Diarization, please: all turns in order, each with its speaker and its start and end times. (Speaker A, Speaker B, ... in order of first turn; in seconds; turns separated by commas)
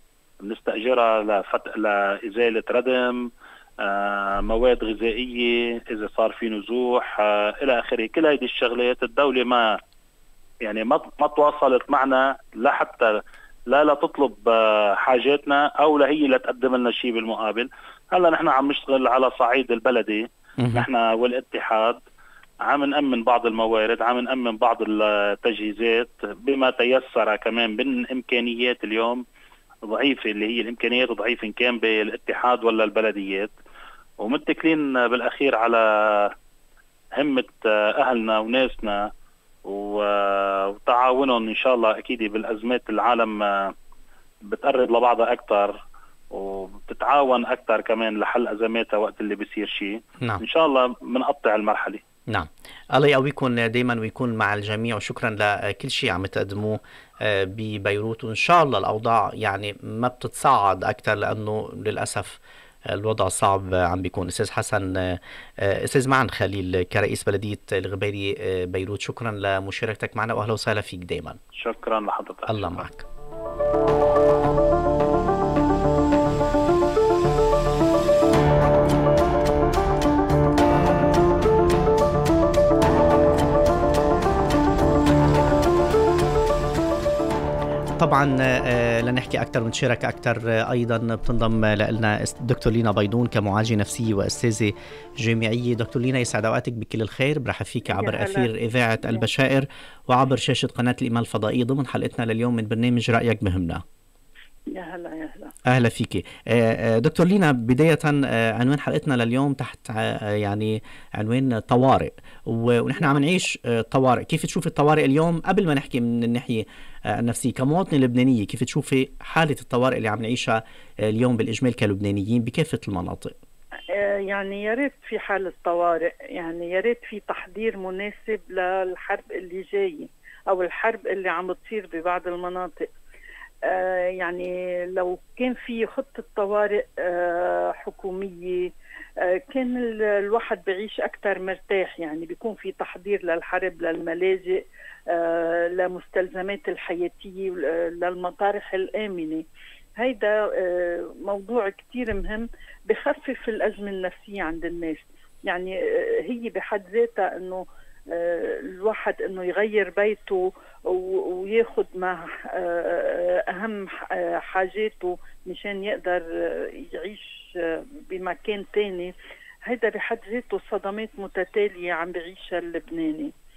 Speaker A: 0.4-3.3, Speaker A: 3.8-9.8, Speaker A: 10.6-22.0, Speaker B: 20.6-20.9, Speaker A: 22.6-29.2, Speaker A: 29.9-33.5, Speaker A: 34.2-36.3, Speaker A: 37.1-39.1, Speaker A: 39.6-43.7, Speaker A: 44.5-45.8, Speaker A: 46.3-52.0, Speaker B: 52.3-71.4, Speaker A: 71.5-72.8, Speaker B: 72.5-73.0, Speaker B: 88.0-103.8, Speaker C: 97.9-98.5, Speaker C: 104.7-105.5, Speaker B: 105.7-123.3, Speaker C: 123.9-132.9, Speaker C: 133.7-138.7, Speaker C: 139.2-149.4, Speaker C: 150.0-169.1, Speaker C: 169.6-173.3